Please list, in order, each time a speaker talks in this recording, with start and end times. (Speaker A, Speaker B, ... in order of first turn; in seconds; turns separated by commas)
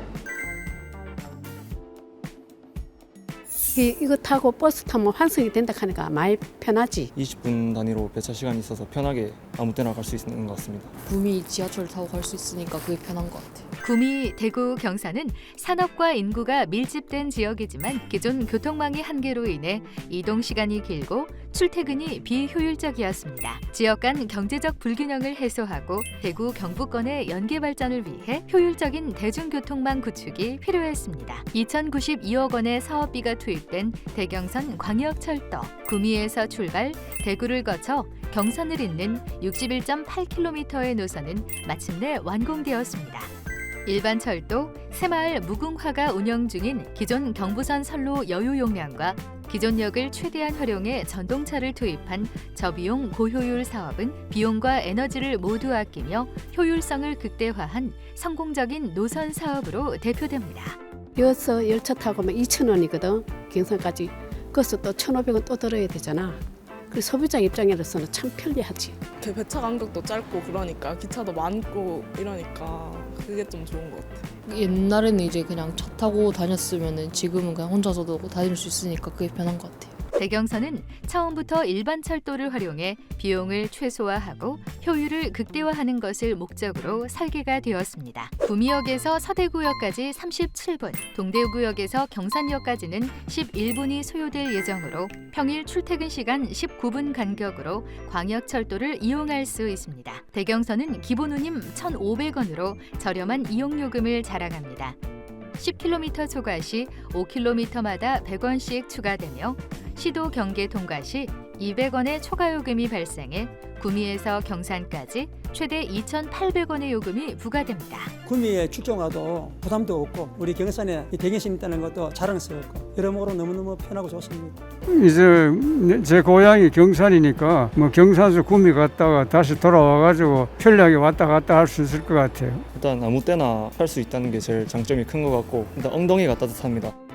Speaker A: 3.8-7.1, Speaker B: 7.2-10.9, Speaker C: 11.1-13.7, Speaker D: 13.8-43.3, Speaker D: 43.9-60.8, Speaker A: 61.2-69.0, Speaker E: 69.2-74.3, Speaker C: 74.5-80.0, Speaker D: 80.2-105.0, Speaker D: 105.6-118.1, Speaker F: 118.2-124.6, Speaker G: 124.9-132.6, Speaker B: 132.7-136.9